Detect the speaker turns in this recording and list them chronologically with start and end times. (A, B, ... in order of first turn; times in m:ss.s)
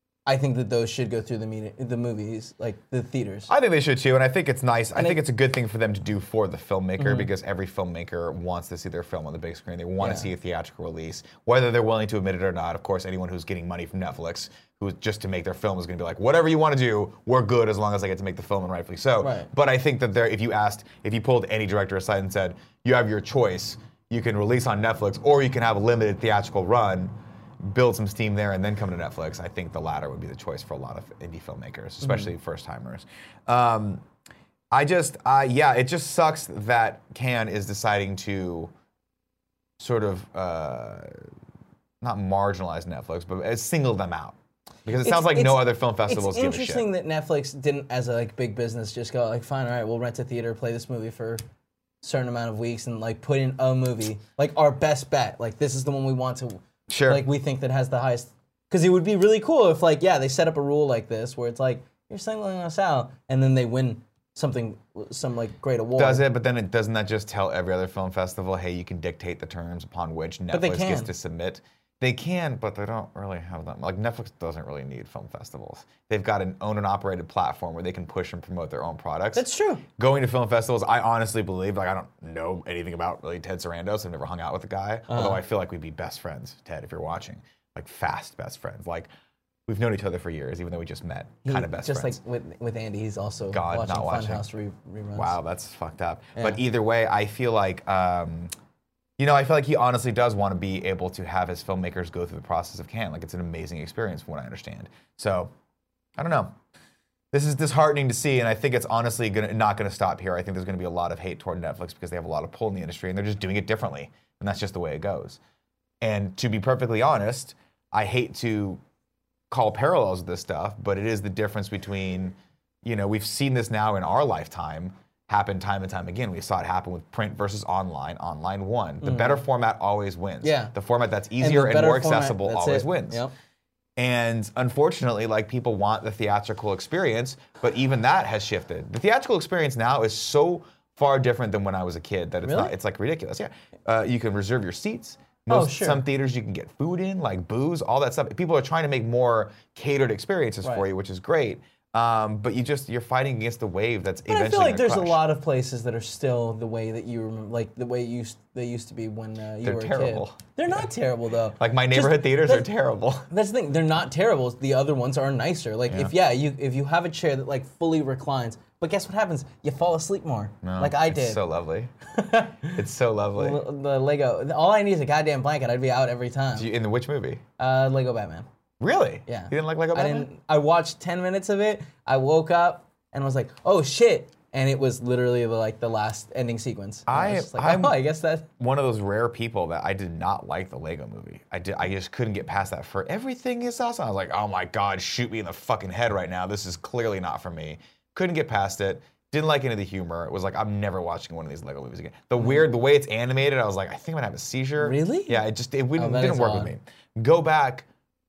0:00.3-0:03.5 A
0:03.5-0:34.0 B
0:07.0-0:07.3 A
0:10.0-0:10.3 A
0:19.2-0:19.5 A
0:34.7-0:38.7 B
0:39.8-0:41.3 B
0:42.0-0:46.9 B
0:45.0-0:51.4 A
0:52.0-1:06.2 A
0:56.9-0:57.3 B
1:06.0-1:29.1 B
1:10.5-1:11.1 A
1:19.4-1:19.8 A
1:25.1-1:25.4 A
1:29.7-1:32.2 B
1:31.4-1:35.4 A
1:33.5-1:34.5 B
1:35.2-1:38.5 B
1:36.4-1:36.6 A
1:39.2-1:45.5 B
1:46.2-1:46.6 B
1:47.3-1:55.4 B
1:56.0-1:58.8 B
1:59.5-2:13.2 B
2:09.0-2:09.4 A
2:10.4-2:10.7 A
2:11.4-2:13.3 A
2:14.0-2:35.2 B
2:22.4-2:22.8 A
2:25.5-2:26.0 A
2:34.3-2:42.7 A
2:39.6-2:40.4 B
2:41.6-2:43.3 B
2:43.3-2:51.4 A
2:45.9-2:46.1 B
2:50.6-2:51.9 B
2:52.1-2:52.8 A
2:52.6-2:53.6 B
2:53.4-2:56.7 A
2:56.6-2:57.4 B
2:57.6-2:58.5 A
2:58.8-3:00.3 B
2:59.3-3:08.5 A
3:07.1-3:08.0 B
3:08.6-3:27.9 B
3:24.8-3:25.4 A
3:26.0-3:26.7 A